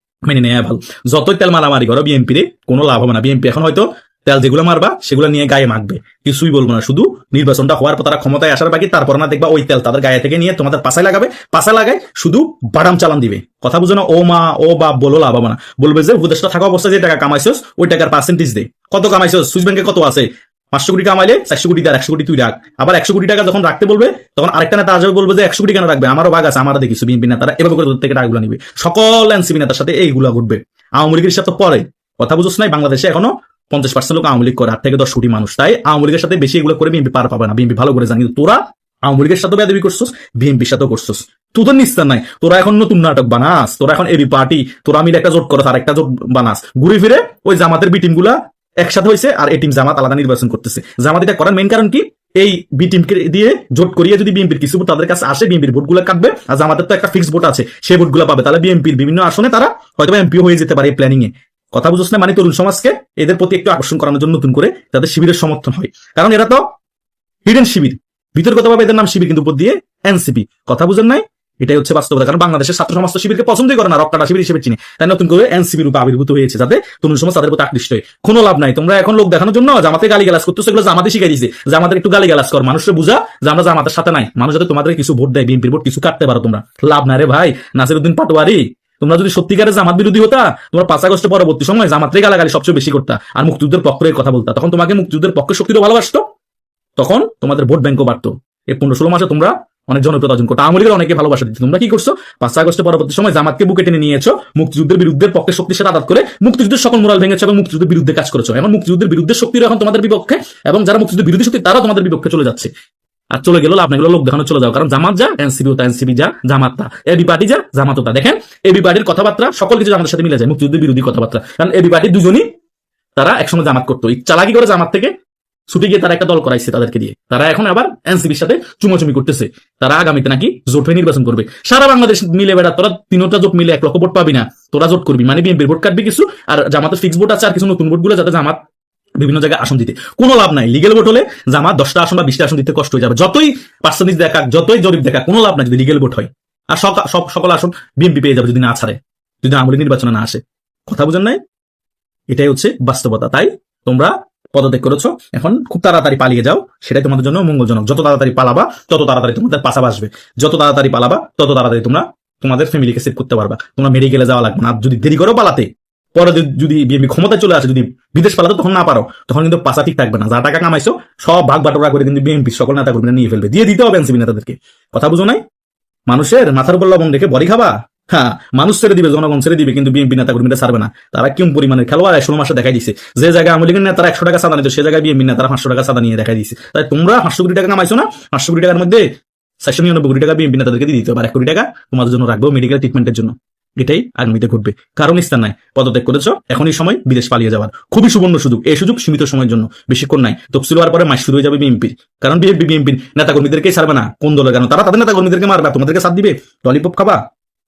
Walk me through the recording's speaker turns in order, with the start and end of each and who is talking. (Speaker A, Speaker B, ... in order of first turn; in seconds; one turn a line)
Speaker A: 0.2-66.6
Speaker A: 67.5-96.2
Speaker A: 97.0-112.7
Speaker A: 113.3-122.4
Speaker A: 123.2-125.1
Speaker A: 125.7-138.6
Speaker A: 139.2-151.4
Speaker A: 152.3-175.4
Speaker A: 176.1-189.0
Speaker A: 189.6-207.2